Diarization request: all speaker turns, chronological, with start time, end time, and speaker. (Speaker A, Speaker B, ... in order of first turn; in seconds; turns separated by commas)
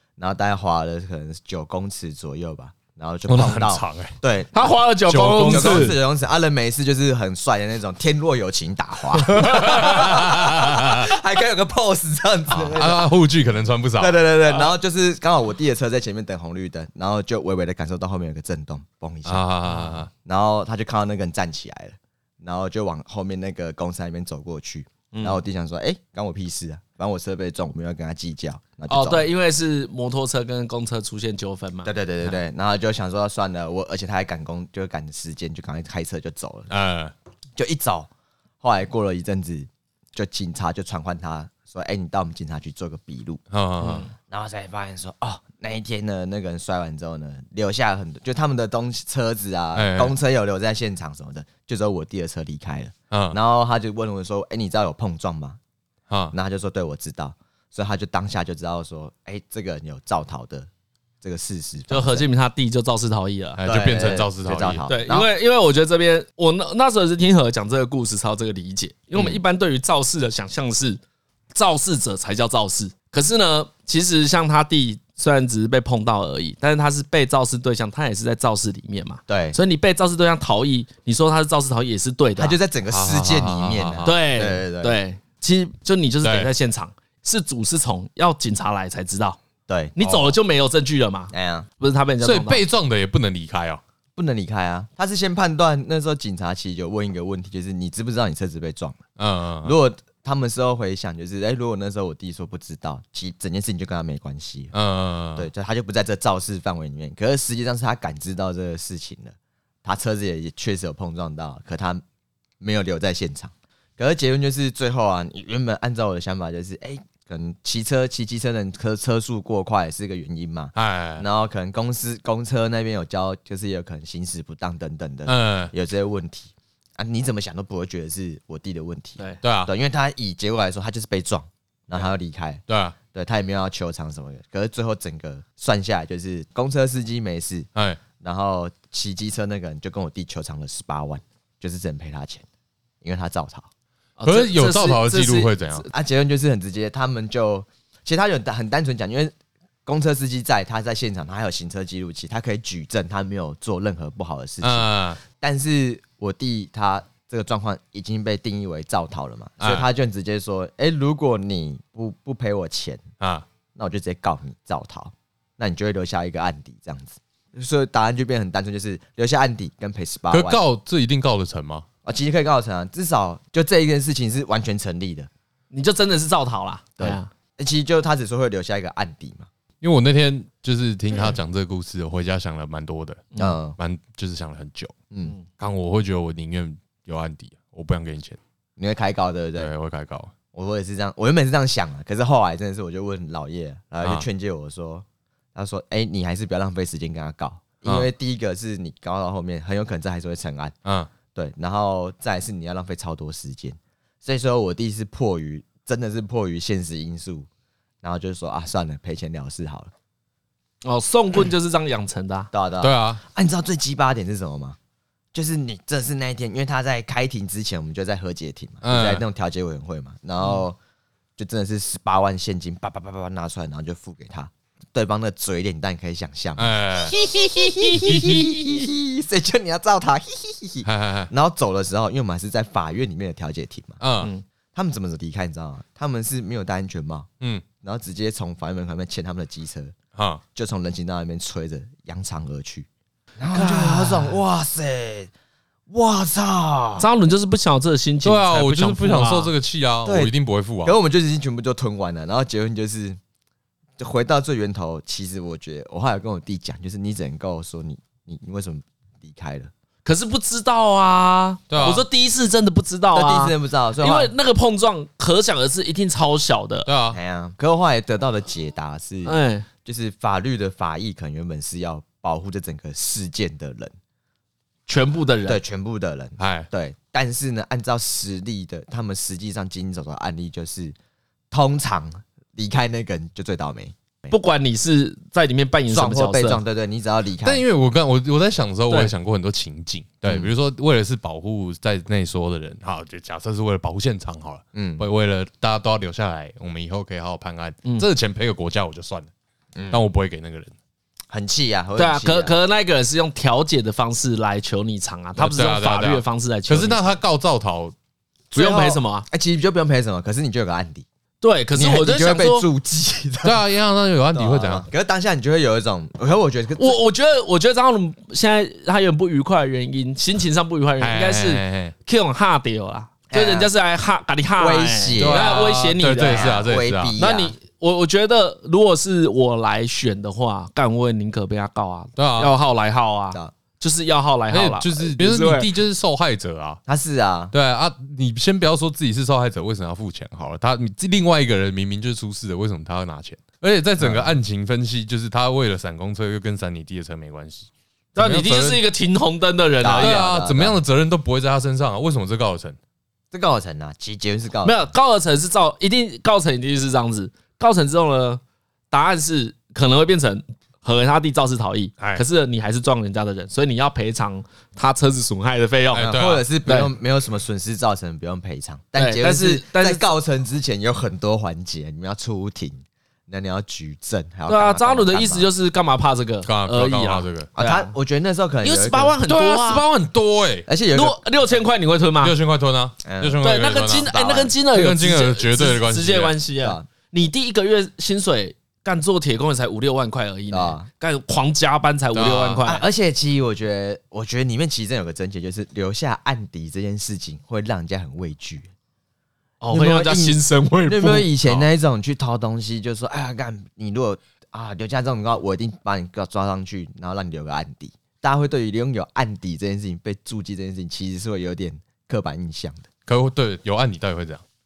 Speaker A: 0.2-4.7, Speaker B: 3.3-4.2, Speaker C: 4.5-6.0, Speaker B: 5.1-6.0, Speaker A: 5.4-13.1, Speaker C: 9.3-10.1, Speaker B: 9.3-11.1, Speaker B: 12.5-14.2, Speaker A: 14.0-19.4, Speaker B: 19.2-20.1, Speaker A: 20.1-29.3, Speaker C: 25.1-25.4, Speaker C: 28.9-31.9, Speaker A: 31.9-36.7, Speaker B: 36.7-37.1, Speaker A: 37.6-38.1, Speaker A: 38.6-43.4, Speaker B: 43.5-44.1, Speaker C: 43.8-44.1, Speaker A: 44.2-55.6, Speaker B: 49.8-50.1, Speaker B: 53.1-53.4, Speaker B: 56.1-56.3, Speaker A: 56.3-60.7, Speaker A: 61.2-62.3, Speaker C: 61.9-63.6, Speaker B: 63.6-64.9, Speaker A: 63.7-65.3, Speaker C: 64.9-71.0, Speaker C: 71.5-82.6, Speaker A: 79.3-79.6, Speaker A: 82.4-85.0, Speaker B: 82.9-84.2, Speaker C: 84.0-89.4, Speaker B: 86.2-86.5, Speaker A: 89.7-90.1, Speaker C: 90.0-92.6, Speaker A: 91.3-91.7, Speaker B: 92.2-93.8, Speaker A: 94.2-99.1, Speaker B: 99.2-99.7, Speaker A: 99.6-104.7, Speaker B: 104.7-105.5, Speaker A: 105.4-112.0, Speaker A: 112.6-142.4, Speaker B: 120.8-121.3, Speaker B: 125.3-125.7, Speaker B: 129.4-129.7, Speaker B: 132.7-133.0, Speaker B: 137.8-138.0, Speaker A: 143.0-143.7, Speaker C: 144.2-145.9, Speaker B: 144.2-145.9, Speaker A: 145.9-149.3, Speaker A: 149.8-163.0, Speaker B: 154.6-155.2, Speaker B: 159.6-159.9, Speaker B: 163.2-163.4, Speaker A: 163.8-170.6, Speaker B: 170.3-171.8, Speaker A: 172.1-175.3, Speaker C: 175.7-177.3, Speaker A: 177.0-179.5, Speaker B: 179.8-185.0, Speaker A: 183.4-183.8, Speaker B: 185.6-188.4, Speaker A: 188.8-189.7, Speaker B: 189.6-190.3, Speaker A: 190.5-200.8, Speaker B: 200.8-201.1, Speaker A: 201.3-207.5, Speaker A: 208.0-209.9, Speaker C: 210.8-212.5, Speaker A: 212.5-214.8, Speaker B: 212.8-213.2, Speaker A: 215.3-220.8, Speaker B: 218.8-219.2, Speaker A: 221.4-234.0, Speaker B: 226.6-227.2, Speaker B: 227.9-228.4, Speaker B: 230.8-231.3, Speaker B: 234.0-234.3, Speaker A: 234.7-237.3, Speaker A: 237.8-239.9, Speaker B: 240.2-240.4, Speaker A: 240.6-245.3, Speaker C: 243.5-244.3, Speaker A: 245.9-247.1, Speaker C: 247.0-249.5, Speaker B: 248.2-250.9, Speaker A: 250.1-250.3, Speaker A: 250.8-253.2, Speaker A: 254.0-259.7, Speaker C: 260.1-266.9, Speaker B: 261.7-262.1, Speaker A: 263.1-264.3, Speaker B: 266.9-267.2, Speaker A: 267.1-273.9, Speaker C: 269.2-269.7, Speaker C: 274.9-275.6, Speaker A: 275.5-281.0, Speaker B: 276.4-276.7, Speaker A: 281.5-284.3, Speaker C: 284.3-286.6, Speaker A: 285.9-287.6, Speaker B: 287.4-299.3, Speaker A: 290.3-290.5, Speaker A: 294.7-295.1, Speaker A: 299.8-300.0, Speaker B: 299.9-300.7, Speaker A: 301.3-302.6, Speaker C: 302.0-307.2, Speaker B: 305.4-307.9, Speaker A: 308.5-311.1, Speaker C: 308.6-309.3, Speaker C: 311.4-312.7, Speaker A: 311.8-313.6, Speaker B: 313.4-314.9, Speaker A: 314.3-317.0, Speaker C: 316.8-326.5, Speaker B: 321.0-321.9, Speaker A: 323.3-323.7, Speaker A: 324.6-325.7, Speaker B: 325.2-327.1, Speaker A: 326.3-327.6, Speaker C: 327.2-335.7, Speaker B: 332.2-332.5, Speaker B: 334.5-336.8, Speaker A: 336.9-337.5, Speaker B: 337.5-348.9, Speaker A: 344.0-344.3, Speaker C: 348.2-350.3, Speaker A: 349.8-350.8, Speaker B: 350.0-352.8, Speaker A: 353.3-354.9, Speaker C: 354.6-366.1, Speaker A: 365.9-375.5, Speaker B: 366.0-366.4, Speaker C: 366.7-366.9, Speaker C: 369.0-370.1, Speaker C: 374.5-377.9, Speaker B: 376.4-377.5, Speaker A: 377.6-379.2, Speaker C: 378.6-379.9, Speaker B: 379.3-380.7, Speaker A: 380.7-381.2, Speaker C: 380.9-382.4, Speaker B: 382.2-386.4, Speaker A: 383.1-383.4, Speaker C: 383.4-392.9, Speaker A: 386.6-386.9, Speaker A: 390.5-390.9, Speaker B: 392.1-392.6, Speaker A: 392.6-398.7, Speaker C: 399.6-401.5, Speaker A: 399.7-412.9, Speaker B: 413.1-414.4